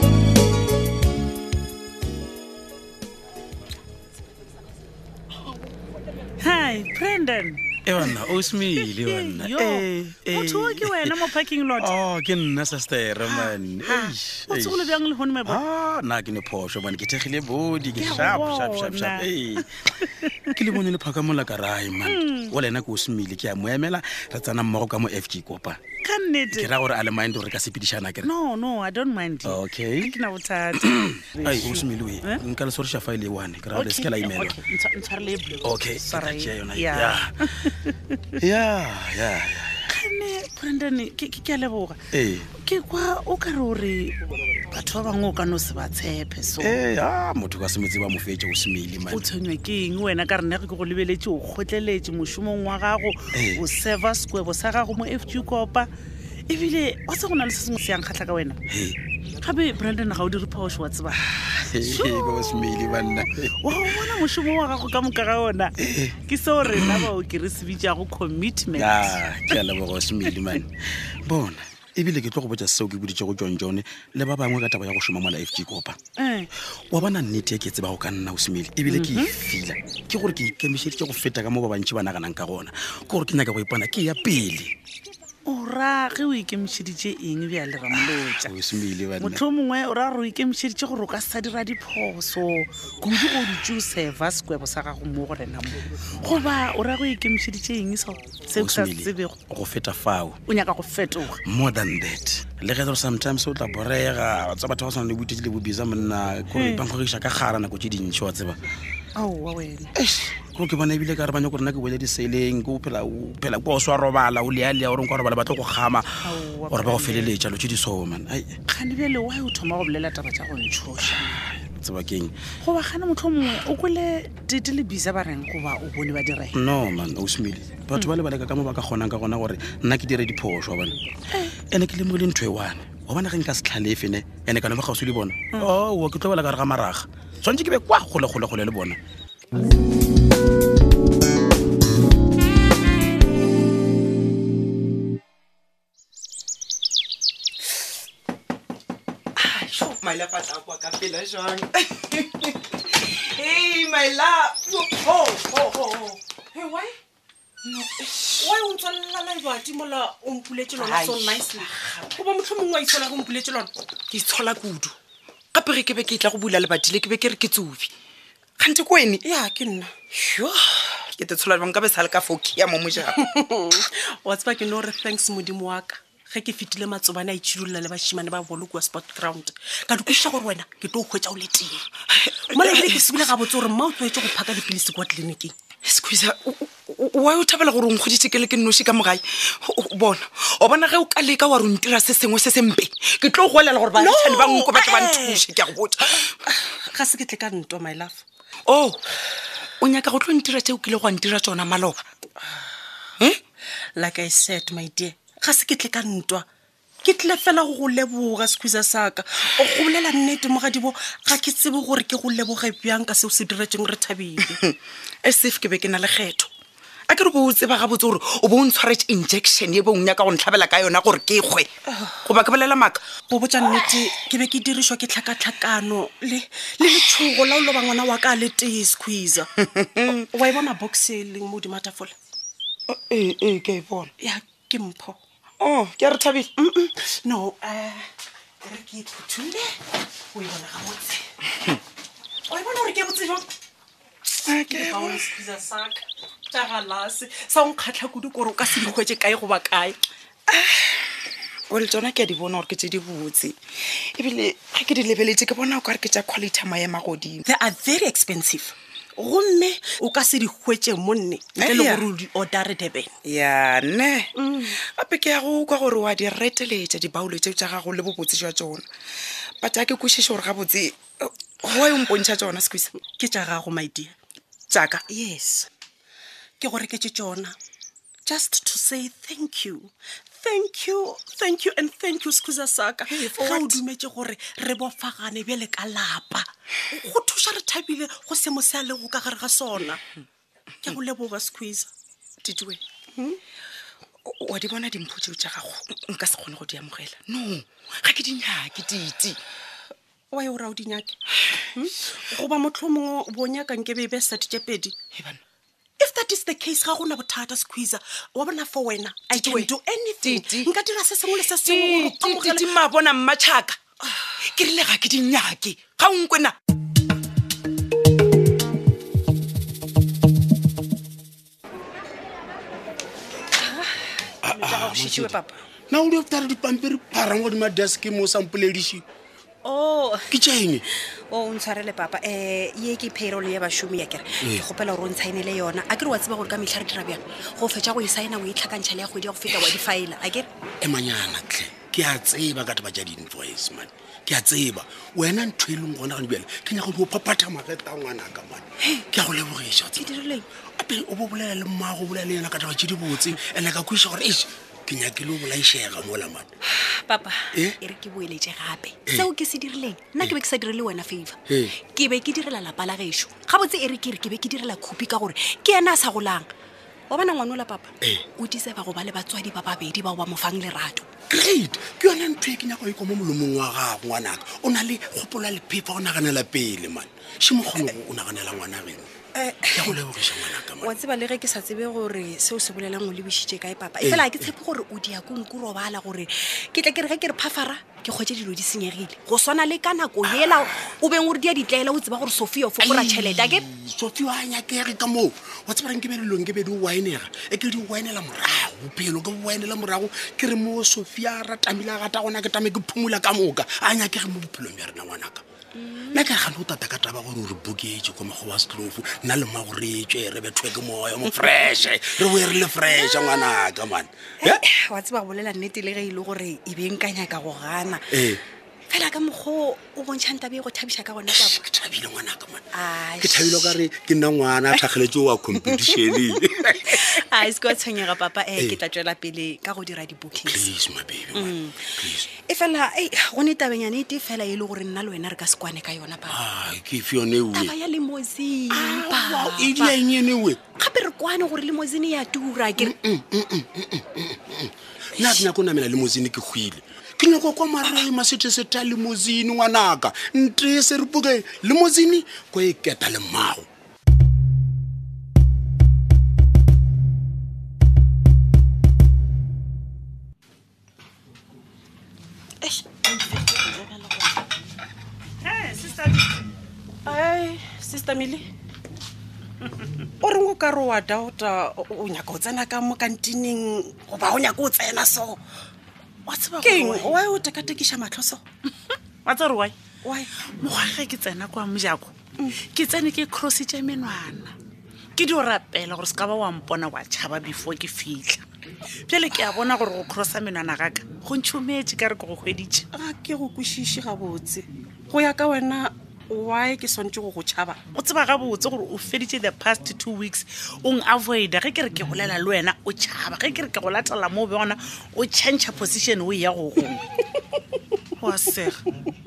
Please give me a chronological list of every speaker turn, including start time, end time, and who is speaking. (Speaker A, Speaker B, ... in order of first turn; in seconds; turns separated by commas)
Speaker A: 6.4-8.2, Speaker B: 7.8-11.2, Speaker A: 8.8-11.9, Speaker B: 11.8-19.7, Speaker A: 13.2-15.6, Speaker A: 18.0-20.8, Speaker B: 20.6-25.8, Speaker A: 22.1-22.5, Speaker A: 26.0-26.7, Speaker B: 26.5-28.3, Speaker A: 28.2-32.4, Speaker B: 29.4-30.2, Speaker B: 30.8-34.6, Speaker A: 33.7-38.2, Speaker B: 35.6-37.3, Speaker B: 38.4-39.9, Speaker A: 39.9-42.0, Speaker B: 42.1-42.5, Speaker A: 42.6-44.2, Speaker A: 44.7-46.8, Speaker B: 46.6-49.3, Speaker A: 49.1-55.9, Speaker B: 53.3-53.6, Speaker A: 56.5-58.6, Speaker B: 58.7-59.0, Speaker A: 59.4-61.2, Speaker B: 61.2-64.1, Speaker A: 61.8-65.7, Speaker B: 65.8-67.1, Speaker A: 66.3-69.6, Speaker B: 68.8-76.0, Speaker A: 76.2-76.5, Speaker B: 76.7-84.7, Speaker A: 78.9-79.3, Speaker A: 85.5-88.5, Speaker B: 87.9-89.4, Speaker A: 89.2-99.4, Speaker B: 98.5-100.4, Speaker A: 100.5-101.4, Speaker B: 101.5-108.6, Speaker A: 106.5-106.8, Speaker A: 109.2-109.9, Speaker B: 110.0-118.5, Speaker A: 116.2-117.3, Speaker A: 118.7-121.4, Speaker B: 121.2-122.3, Speaker A: 122.6-126.6, Speaker B: 126.5-131.0, Speaker B: 131.7-139.0, Speaker C: 149.4-155.8, Speaker D: 155.3-157.0, Speaker C: 157.6-158.6, Speaker D: 158.4-163.7, Speaker C: 160.8-162.2, Speaker C: 164.1-164.9, Speaker C: 165.5-167.9, Speaker C: 168.6-169.2, Speaker D: 169.2-170.1, Speaker C: 170.2-170.5, Speaker C: 171.1-173.3, Speaker D: 173.1-181.8, Speaker C: 182.1-183.2, Speaker D: 182.5-185.6, Speaker C: 185.8-196.3, Speaker D: 193.9-195.5, Speaker D: 196.4-198.2, Speaker C: 198.7-199.0, Speaker C: 199.8-202.0, Speaker D: 204.0-206.4, Speaker D: 207.0-214.6, Speaker C: 214.4-216.5, Speaker C: 217.1-221.7, Speaker D: 221.9-222.2, Speaker C: 222.2-223.1, Speaker D: 223.3-229.5, Speaker C: 223.6-224.1, Speaker C: 229.6-230.2, Speaker D: 230.2-232.1, Speaker C: 232.9-234.1, Speaker D: 234.2-235.2, Speaker C: 235.6-236.5, Speaker D: 236.6-238.1, Speaker D: 238.6-239.8, Speaker D: 240.3-241.2, Speaker D: 242.5-243.5, Speaker C: 244.4-245.3, Speaker D: 244.6-250.0, Speaker C: 250.5-251.0, Speaker C: 251.7-253.6, Speaker C: 254.1-257.4, Speaker D: 257.5-263.1, Speaker C: 261.6-262.1, Speaker C: 263.2-268.9, Speaker D: 264.4-264.8, Speaker C: 269.6-273.0, Speaker D: 273.2-274.2, Speaker C: 274.7-275.1, Speaker D: 275.1-275.7, Speaker D: 276.6-277.6, Speaker D: 278.2-290.0, Speaker C: 283.1-283.8, Speaker D: 290.8-291.9, Speaker C: 292.4-292.8, Speaker C: 294.2-299.4, Speaker D: 300.3-301.2, Speaker D: 301.7-305.0, Speaker C: 305.1-305.4, Speaker D: 306.0-312.7, Speaker C: 309.4-309.7, Speaker C: 310.2-310.7, Speaker C: 311.5-313.8, Speaker C: 314.4-316.6, Speaker E: 323.6-323.9, Speaker F: 324.4-325.4, Speaker D: 324.5-324.9, Speaker E: 324.8-325.5, Speaker F: 325.9-329.0, Speaker E: 329.6-330.4, Speaker F: 330.3-330.9, Speaker E: 331.3-340.5, Speaker F: 340.8-350.2, Speaker E: 349.9-350.5, Speaker F: 350.8-356.5, Speaker E: 356.9-366.5, Speaker F: 359.1-359.3, Speaker F: 361.5-361.8, Speaker E: 367.1-371.1, Speaker F: 368.0-368.3, Speaker F: 371.3-379.1, Speaker D: 379.4-380.1, Speaker F: 379.7-381.0, Speaker E: 380.8-393.7, Speaker F: 384.0-384.5, Speaker F: 392.8-405.4, Speaker E: 406.0-406.4, Speaker F: 406.1-414.6, Speaker E: 412.9-413.7, Speaker E: 414.4-418.3, Speaker F: 418.1-418.4, Speaker E: 418.9-421.6, Speaker F: 421.3-422.7, Speaker E: 422.7-423.8, Speaker F: 423.2-427.2, Speaker E: 425.6-430.7, Speaker F: 428.6-428.8, Speaker F: 430.4-432.3, Speaker E: 431.3-436.4, Speaker F: 436.3-437.8, Speaker E: 437.5-440.1, Speaker F: 438.7-440.6, Speaker E: 440.8-442.9, Speaker F: 442.8-453.7, Speaker E: 445.2-445.5, Speaker D: 462.6-464.4, Speaker A: 465.4-466.4, Speaker D: 467.1-468.5, Speaker D: 470.2-475.4, Speaker A: 476.2-477.2, Speaker D: 476.6-478.4, Speaker A: 479.2-479.8, Speaker D: 480.0-480.3, Speaker A: 480.6-482.1, Speaker A: 482.7-484.5, Speaker A: 485.1-488.4, Speaker A: 489.1-492.9, Speaker D: 492.9-497.8, Speaker A: 497.9-507.0, Speaker A: 508.2-508.9